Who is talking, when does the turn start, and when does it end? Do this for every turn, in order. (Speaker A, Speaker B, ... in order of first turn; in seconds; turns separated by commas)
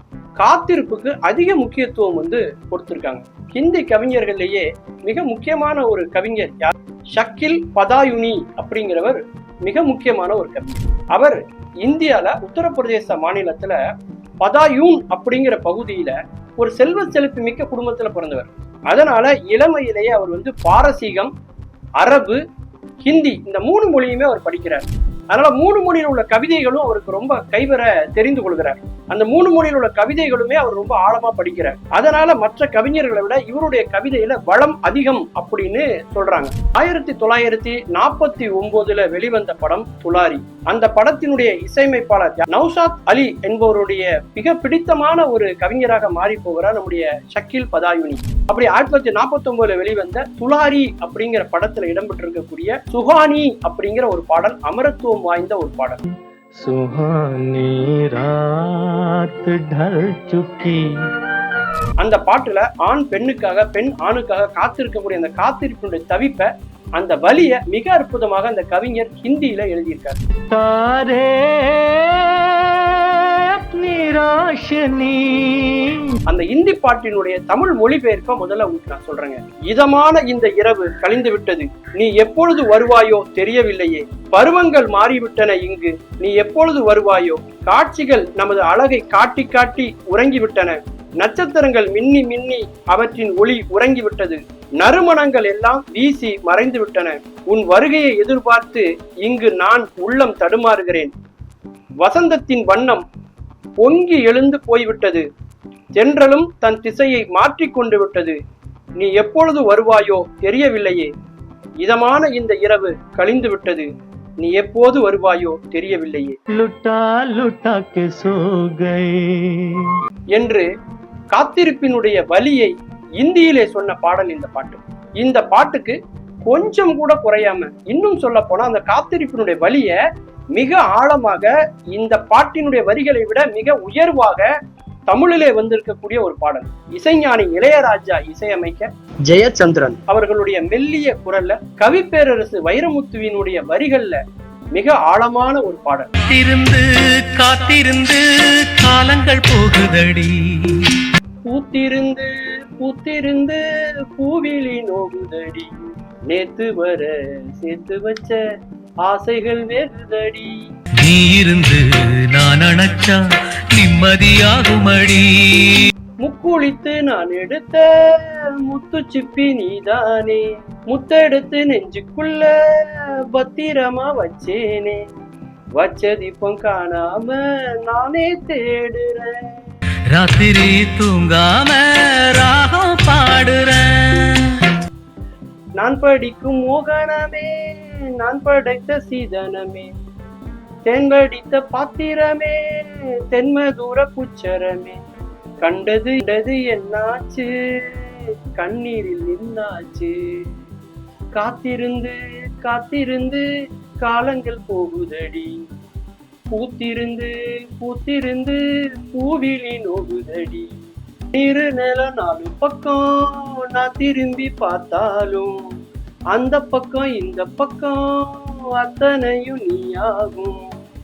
Speaker A: 0.4-13.8, Speaker A: 14.4-21.3, Speaker A: 22.0-22.4, Speaker A: 23.0-56.0, Speaker B: 56.6-60.8, Speaker A: 62.0-70.2, Speaker B: 70.5-72.5, Speaker B: 73.7-75.8, Speaker A: 76.3-101.1, Speaker A: 102.0-103.0, Speaker A: 103.8-105.2, Speaker A: 106.0-108.4, Speaker A: 109.0-111.1, Speaker A: 111.8-113.9, Speaker A: 114.4-116.3, Speaker B: 116.6-119.6, Speaker A: 120.3-120.7, Speaker A: 121.3-130.0, Speaker A: 130.5-134.5, Speaker A: 135.1-144.2, Speaker A: 144.7-146.1, Speaker C: 146.3-150.4, Speaker A: 151.5-155.7, Speaker A: 156.3-158.4, Speaker A: 159.1-160.5, Speaker C: 161.0-163.2, Speaker C: 163.8-165.7, Speaker A: 166.2-175.0, Speaker A: 175.8-179.4, Speaker C: 180.1-184.3, Speaker A: 185.8-189.9, Speaker A: 190.8-195.0, Speaker A: 195.6-200.1, Speaker A: 201.3-203.4, Speaker A: 204.0-205.6, Speaker A: 206.5-210.7, Speaker A: 211.3-215.6, Speaker A: 216.3-220.6